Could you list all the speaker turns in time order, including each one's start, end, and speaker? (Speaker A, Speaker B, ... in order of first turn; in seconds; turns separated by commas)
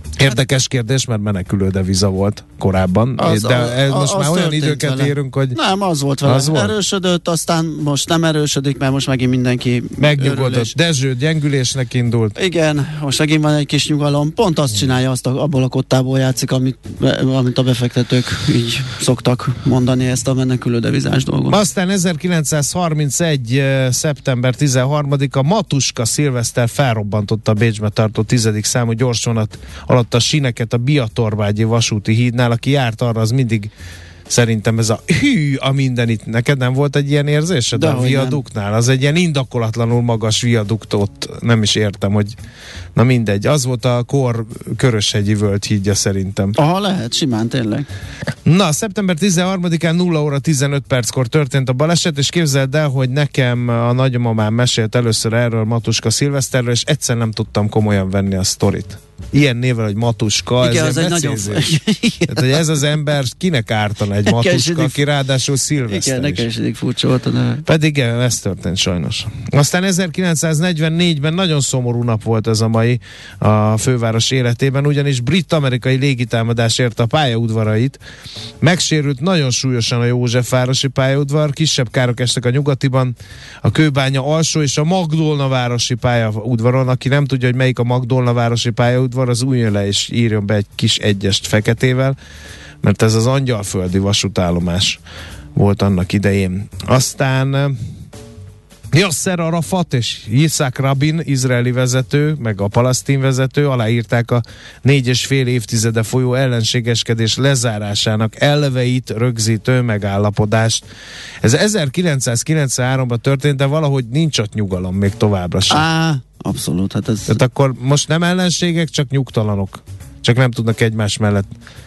Speaker A: 0.2-5.6, Speaker B: 3.2-10.7, Speaker A: 6.2-6.7, Speaker A: 10.0-12.4, Speaker B: 12.4-21.6, Speaker A: 21.5-33.7, Speaker A: 34.3-42.3, Speaker B: 37.7-38.4, Speaker A: 43.0-46.6, Speaker B: 46.6-47.9, Speaker A: 48.5-66.5, Speaker B: 60.6-62.6, Speaker B: 64.3-65.0, Speaker B: 65.8-67.7, Speaker A: 67.7-78.0, Speaker A: 78.6-92.2, Speaker A: 92.8-95.0, Speaker A: 95.5-97.8, Speaker A: 98.9-110.8, Speaker A: 111.4-115.8, Speaker B: 115.7-117.4, Speaker A: 117.3-121.5